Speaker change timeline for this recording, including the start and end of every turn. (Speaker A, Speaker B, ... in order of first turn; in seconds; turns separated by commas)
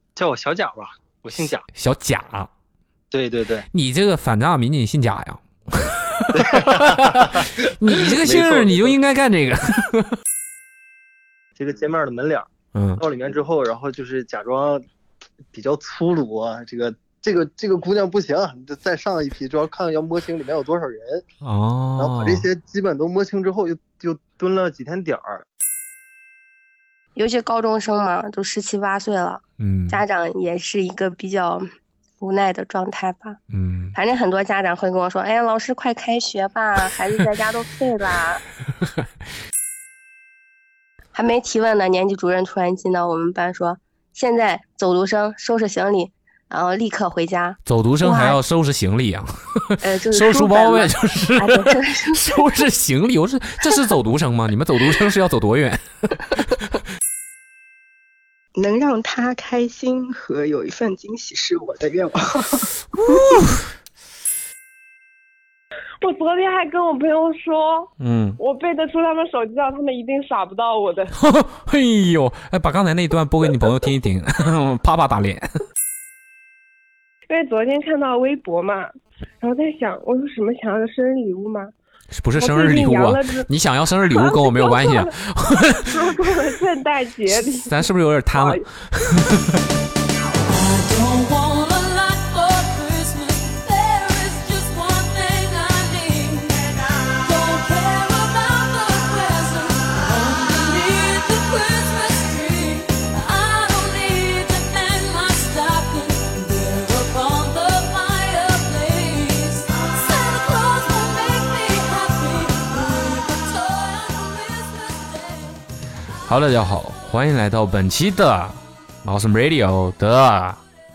Speaker A: 0.1-1.6, Speaker B: 1.7-2.5, Speaker A: 3.1-3.6, Speaker B: 3.7-10.2, Speaker A: 6.3-7.5, Speaker A: 8.0-8.9, Speaker A: 11.6-14.8, Speaker B: 12.7-13.0, Speaker A: 15.5-21.2, Speaker B: 21.4-22.5, Speaker A: 22.0-25.4, Speaker C: 27.1-31.6, Speaker B: 29.6-30.0, Speaker C: 32.2-33.4, Speaker B: 33.5-34.0, Speaker C: 33.9-38.4, Speaker C: 41.1-48.4, Speaker B: 47.6-56.7, Speaker C: 49.8-52.2, Speaker D: 58.5-63.2, Speaker B: 62.9-63.7, Speaker E: 66.0-71.1, Speaker B: 68.0-68.4, Speaker B: 71.1-75.6, Speaker E: 77.3-81.7, Speaker B: 82.1-86.4, Speaker E: 82.4-83.5, Speaker E: 84.0-85.1, Speaker E: 85.9-87.8, Speaker B: 87.3-89.6, Speaker E: 88.3-88.6, Speaker F: 90.5-115.6, Speaker B: 116.2-120.6